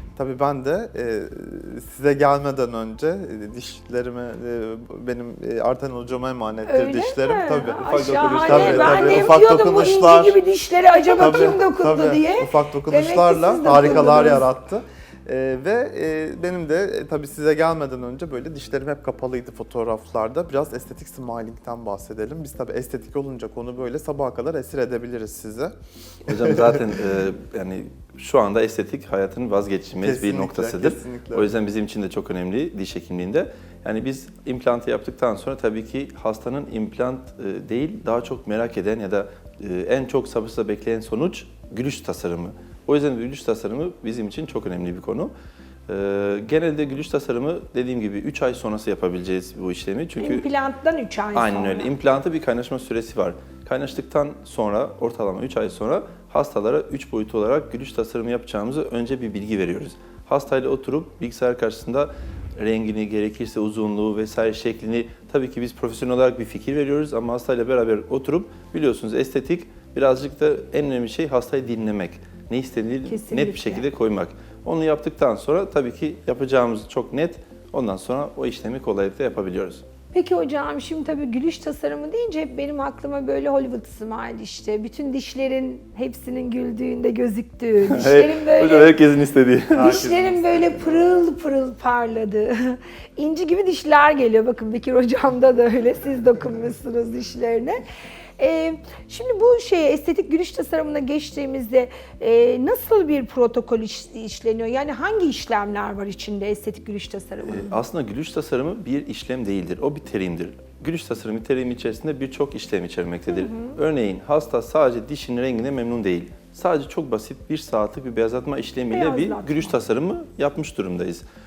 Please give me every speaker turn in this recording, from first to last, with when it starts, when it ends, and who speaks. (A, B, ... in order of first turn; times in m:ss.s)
0:00.2-0:10.4 A
0:06.7-0:14.5 B
0:07.8-0:09.4 C
0:11.2-0:25.7 A
0:26.3-0:45.3 C
0:30.0-0:31.5 A
0:45.9-0:50.5 C
0:50.2-0:51.9 B
0:51.3-1:19.8 C
1:13.0-1:13.9 B
1:20.1-1:29.0 B
1:27.9-1:29.9 C
1:29.7-1:31.1 A
1:29.8-1:37.8 B
1:38.4-1:47.8 B
1:47.4-2:01.2 C
1:53.3-1:53.8 B
1:58.9-1:59.8 B